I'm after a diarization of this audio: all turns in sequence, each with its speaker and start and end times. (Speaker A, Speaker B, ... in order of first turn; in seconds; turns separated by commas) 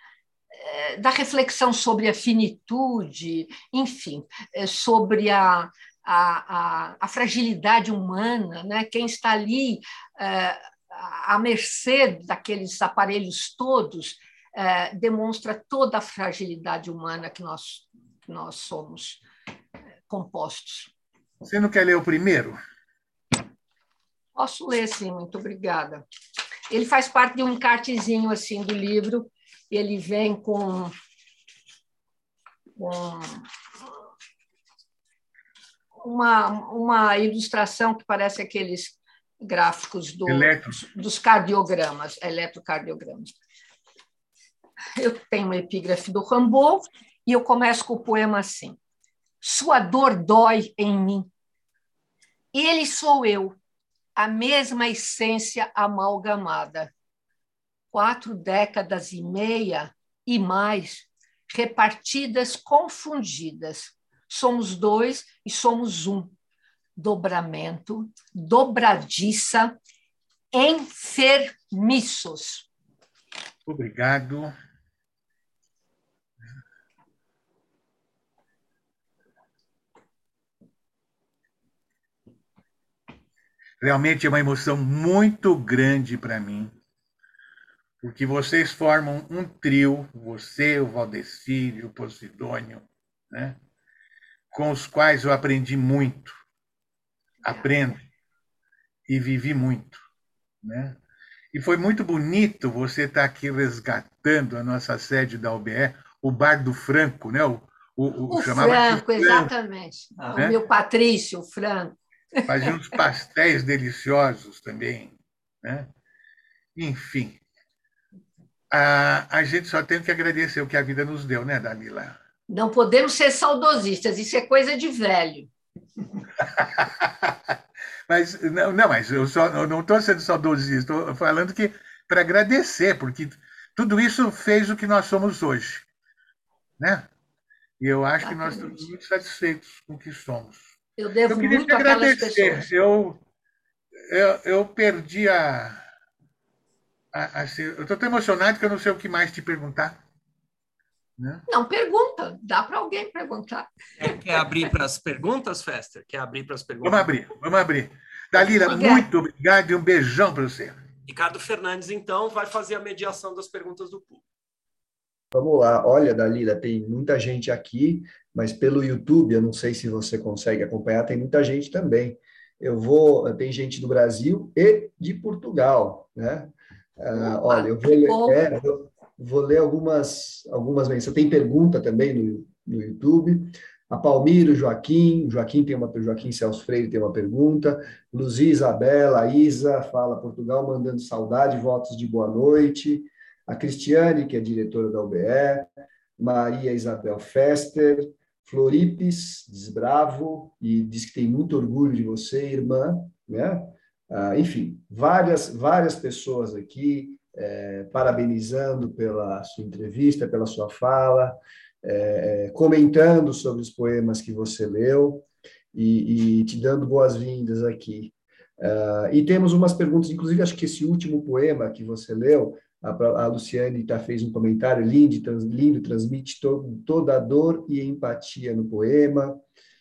Speaker A: 0.5-19.2, Speaker A: 20.1-20.9, Speaker B: 21.4-22.6, Speaker A: 24.3-26.0, Speaker A: 26.7-30.9, Speaker A: 32.8-33.4, Speaker A: 36.0-43.3, Speaker B: 40.3-40.8, Speaker A: 45.0-48.8, Speaker A: 49.4-51.3, Speaker A: 52.5-53.5, Speaker A: 54.1-56.9, Speaker A: 57.9-66.3, Speaker A: 67.0-69.8, Speaker A: 70.5-72.7, Speaker B: 73.7-74.5, Speaker B: 83.8-86.7, Speaker B: 88.0-93.6, Speaker B: 94.5-96.3, Speaker B: 97.4-98.0, Speaker B: 99.1-100.0, Speaker B: 100.6-101.0, Speaker B: 101.5-109.5, Speaker A: 108.3-112.7, Speaker B: 112.5-115.9, Speaker B: 116.8-117.4, Speaker B: 118.7-122.1, Speaker A: 122.5-125.5, Speaker B: 126.6-127.3, Speaker B: 128.1-135.8, Speaker B: 136.8-137.1, Speaker B: 137.8-140.6, Speaker A: 138.2-138.8, Speaker A: 141.0-142.7, Speaker B: 141.3-143.2, Speaker B: 144.1-145.8, Speaker B: 147.1-150.0, Speaker B: 151.2-151.4, Speaker A: 151.5-154.0, Speaker C: 154.0-157.1, Speaker B: 156.8-160.7, Speaker A: 158.6-159.1, Speaker C: 161.1-164.2, Speaker D: 165.3-229.4, Speaker A: 177.2-178.4